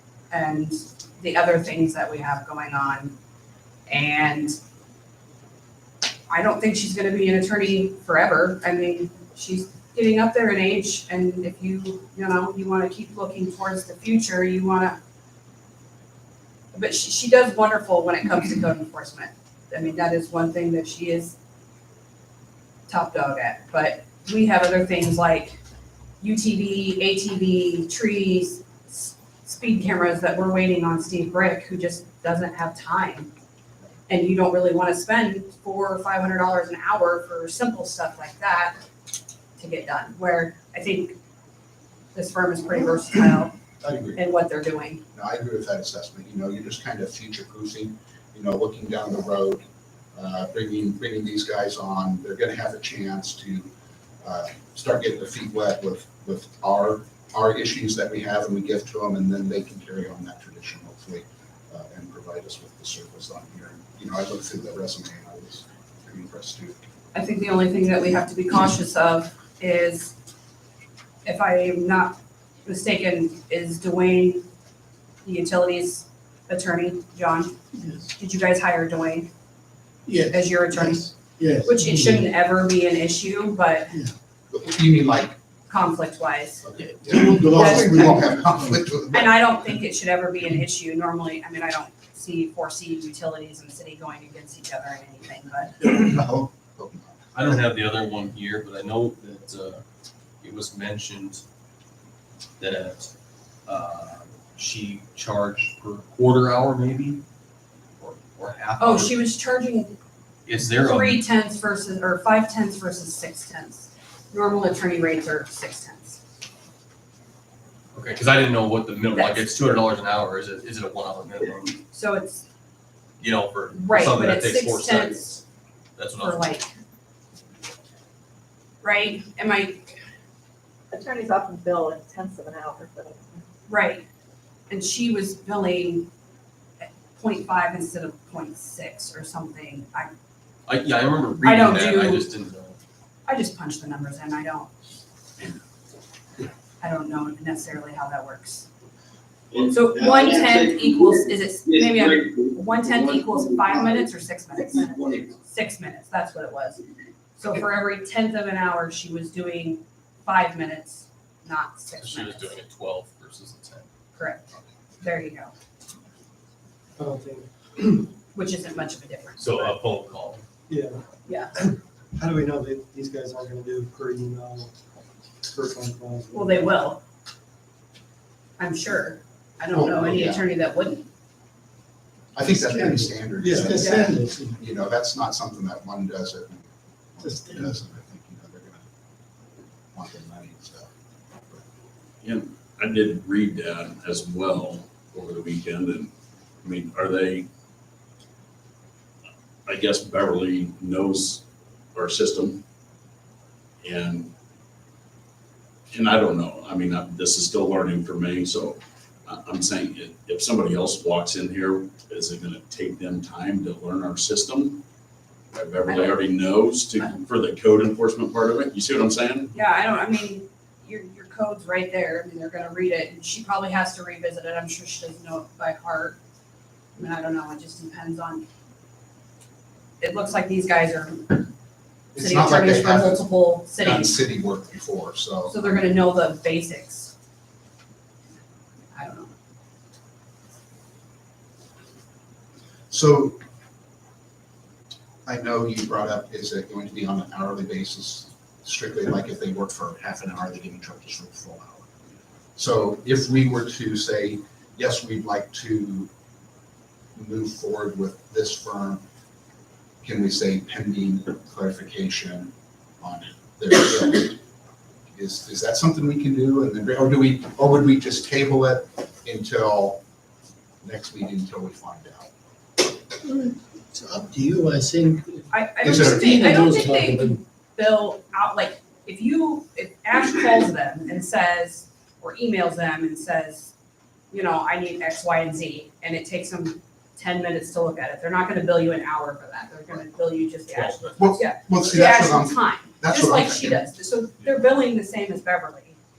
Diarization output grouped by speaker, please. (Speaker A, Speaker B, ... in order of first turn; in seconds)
Speaker A: 0.3-3.1, 3.9-4.5, 6.3-15.0, 16.7-21.4, 22.9-25.6, 26.2-33.3, 34.1-38.8, 39.6-41.2, 42.1-43.5, 44.1-45.0, 67.1-70.1, 71.2-74.5, 75.2-77.5, 78.2-79.3, 80.2-83.9, 85.7-88.3, 89.1-95.9, 108.8-109.9, 110.8-116.2, 119.1-119.5, 121.9-122.4, 123.7-125.4, 126.2-126.7, 128.8-129.9, 133.7-134.0, 134.7-136.1, 136.8-140.1, 141.4-142.2, 143.2-144.7, 146.8-148.7, 149.6-156.8, 157.4-162.6, 164.2-164.4, 165.0-165.5, 168.3-169.7, 171.2-171.5, 176.3-177.0, 178.6-181.1, 183.7-184.2, 215.9-216.2, 219.5-226.2, 227.0-228.4, 230.0-231.5, 232.2-234.2, 235.5-237.1, 238.9-239.3, 275.5-283.7, 284.3-295.9
Speaker B: 43.8-44.2, 45.1-49.6, 50.1-53.7, 54.2-66.8, 84.5-85.3, 86.6-89.4, 95.8-97.2, 179.7-180.5, 182.3-188.8, 189.9-190.9, 232.1-235.9, 242.9-243.4, 245.2-251.9, 252.6-256.1, 257.1-259.0, 260.0-264.4, 265.1-270.0, 270.8-272.3, 275.8-276.5, 291.2-293.8
Speaker C: 80.1-82.0, 87.4-87.7, 149.5-150.8, 151.7-153.7, 155.0-155.2, 273.2-277.4
Speaker D: 97.3-99.8, 100.4-101.4, 102.6-103.1, 103.7-107.2, 108.0-109.2, 110.5-111.2, 117.9-121.8, 123.2-125.2, 126.0-126.5, 140.7-142.8, 162.0-163.8, 169.4-170.4, 290.7-291.4
Speaker E: 130.9-133.4
Speaker F: 167.0-168.1, 170.7-171.0, 171.6-174.7, 175.4-176.7, 182.9-184.6, 187.2-187.7
Speaker G: 192.2-197.5, 199.7-202.6, 203.8-204.3, 205.9-214.8, 215.5-219.5